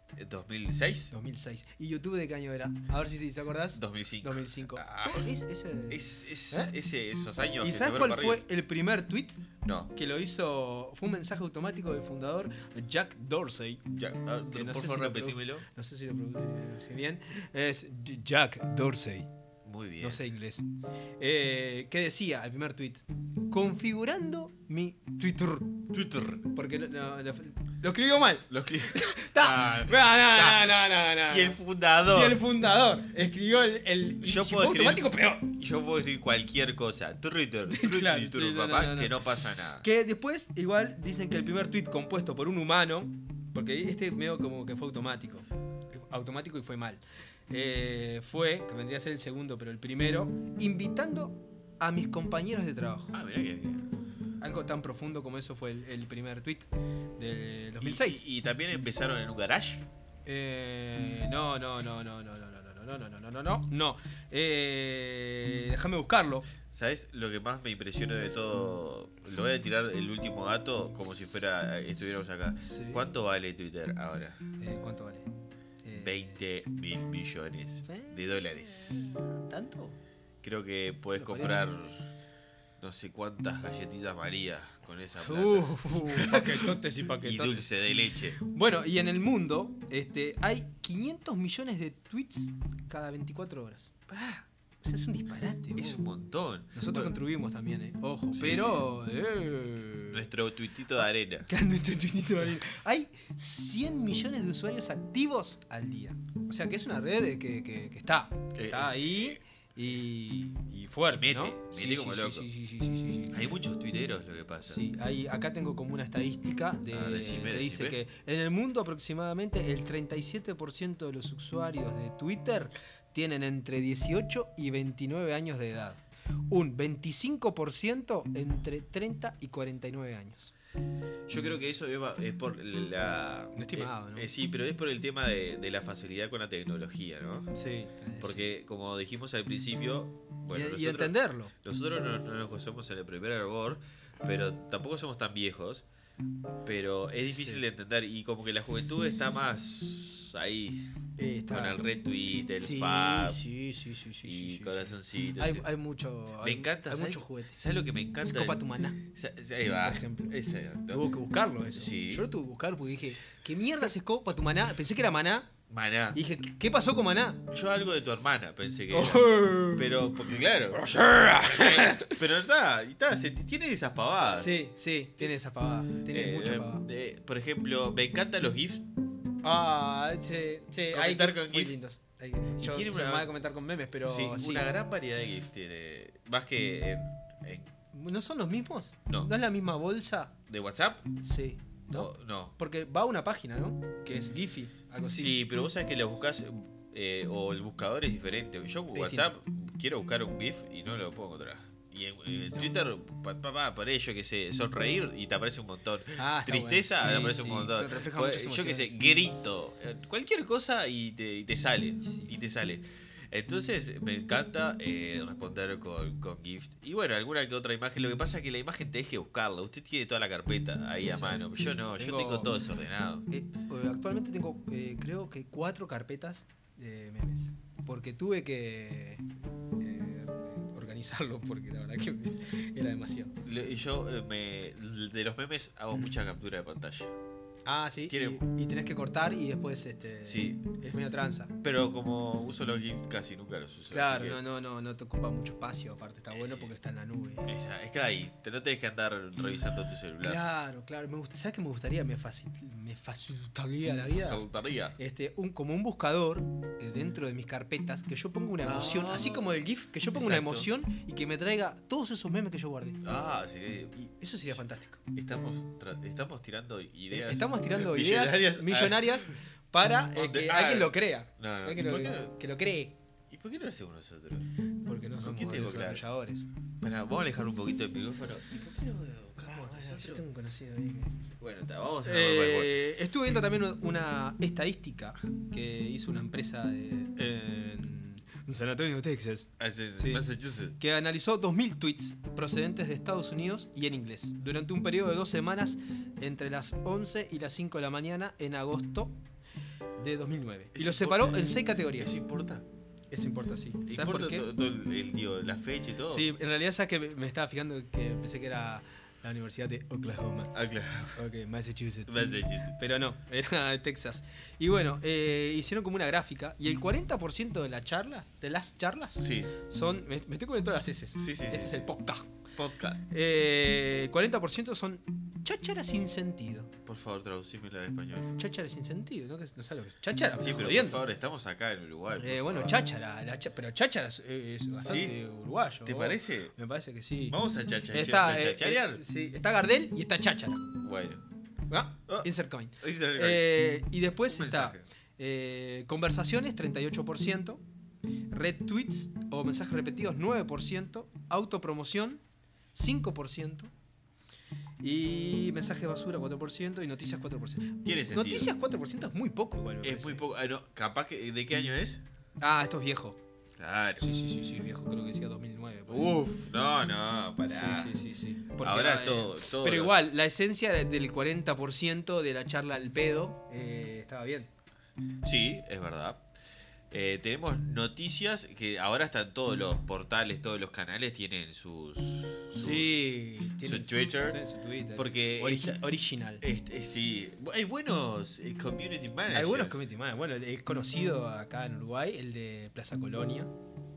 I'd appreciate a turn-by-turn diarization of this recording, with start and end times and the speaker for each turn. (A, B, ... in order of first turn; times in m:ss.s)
0:00.2-0:01.1 A
0:01.1-0:06.7 B
0:03.8-0:05.3 A
0:05.9-0:08.4 A
0:07.6-0:13.9 B
0:09.6-0:09.9 A
0:13.9-0:15.7 A
0:14.5-0:19.3 B
0:19.6-0:20.2 A
0:20.0-0:20.7 B
0:21.2-0:25.8 B
0:25.9-0:26.4 A
0:26.5-0:35.6 B
0:28.5-0:32.4 A
0:34.2-0:39.9 A
0:37.7-0:53.1 B
0:53.1-0:53.9 A
0:54.4-0:58.2 B
0:57.8-0:59.9 A
1:00.3-1:06.5 B
1:06.7-1:14.4 A
1:12.6-1:13.1 B
1:14.6-1:15.3 B
1:15.8-1:16.2 B
1:15.9-1:19.2 A
1:17.9-1:18.2 B
1:18.9-1:20.0 B
1:20.4-1:22.1 A
1:21.1-1:21.7 B
1:22.8-1:28.4 A
1:25.2-1:34.0 B
1:34.1-1:34.4 A
1:34.8-1:36.0 B
1:35.8-1:37.1 A
1:36.7-1:40.3 B
1:38.3-1:38.9 A
1:40.1-1:41.5 A
1:41.5-1:53.4 B
1:48.5-1:49.4 A
1:51.1-1:52.5 A
1:53.3-1:54.8 A
1:54.6-2:10.5 B
1:56.9-1:58.0 A
2:11.3-2:17.5 A
2:13.6-2:14.3 B
2:17.5-2:18.5 B
2:18.2-2:25.8 A
2:20.5-2:21.5 B
2:26.6-2:30.9 A
2:27.2-2:27.6 B
2:31.2-2:31.9 B
2:31.5-2:33.4 A
2:32.6-2:37.6 B
2:34.2-2:35.7 A
2:36.4-2:41.1 A
2:38.2-2:39.0 B
2:39.8-2:40.4 B
2:40.9-2:45.5 B
2:41.8-2:42.3 A
2:45.7-2:46.2 A
2:46.1-2:47.5 B
2:47.5-2:54.5 A
2:48.9-2:50.1 B
2:50.8-2:52.2 B
2:54.3-2:56.8 B
2:56.1-2:58.9 A
2:59.4-3:04.7 B
3:00.9-3:01.8 A
3:02.6-3:03.3 A
3:04.0-3:07.7 A
3:07.9-3:10.3 B
3:10.5-3:11.1 A
3:11.2-3:15.4 B
3:11.9-3:12.5 A
3:15.0-3:43.3 A
3:19.0-3:19.3 B
3:26.2-3:29.0 B
3:32.0-3:32.4 B
3:41.0-3:42.6 B
3:43.3-3:49.2 B
3:49.8-3:53.3 B
3:53.4-3:57.1 A
3:57.6-4:01.5 B
3:58.1-3:58.4 A
4:00.2-4:00.6 A
4:01.6-4:04.4 A
4:03.9-4:07.5 B
4:06.3-4:06.7 A
4:07.5-4:10.4 A
4:10.2-4:14.4 B
4:14.1-4:15.0 A
4:15.0-4:23.0 B
4:18.6-4:19.5 A
4:20.1-4:20.7 A
4:23.0-4:24.6 A
4:24.2-4:25.0 B
4:25.1-4:29.3 A
4:27.1-4:32.9 B
4:30.1-4:32.3 A
4:33.3-4:34.5 A
4:34.8-4:36.5 B
4:35.2-4:36.0 A
4:36.8-4:40.2 A
4:39.5-4:41.2 B
4:41.4-4:42.9 A
4:42.0-4:50.3 B
4:49.6-4:50.8 A
4:50.8-4:59.1 B
5:00.0-5:02.1 B
5:00.8-5:02.7 A
5:03.1-5:04.5 B
5:03.9-5:06.3 A
5:06.1-5:10.5 B
5:10.5-5:11.2 A
5:11.2-5:22.3 B
5:12.1-5:12.8 A
5:19.2-5:19.5 A
5:21.2-5:21.9 A
5:22.6-5:23.0 A
5:23.1-5:26.7 B
5:26.9-5:28.4 A
5:28.4-5:31.0 B
5:30.4-5:32.9 A
5:32.2-5:40.6 B
5:34.8-5:35.2 A
5:35.8-5:36.5 A
5:37.3-5:39.0 A
5:40.8-5:41.2 A
5:41.7-5:47.6 B
5:42.8-5:43.6 A
5:44.3-5:44.8 A
5:48.3-5:52.2 B
5:52.8-5:53.7 B
5:54.8-6:00.2 B
5:57.8-5:58.5 A
5:59.8-6:02.0 A
6:02.4-6:03.2 B
6:03.6-6:04.1 A
6:04.0-6:06.2 B
6:05.9-6:08.0 A
6:07.5-6:14.5 B
6:08.6-6:10.0 A
6:15.2-6:16.2 A
6:16.9-6:23.0 A
6:22.6-6:26.4 B
6:23.6-6:24.4 A
6:25.0-6:25.8 A
6:26.4-6:29.8 A
6:29.3-6:33.5 B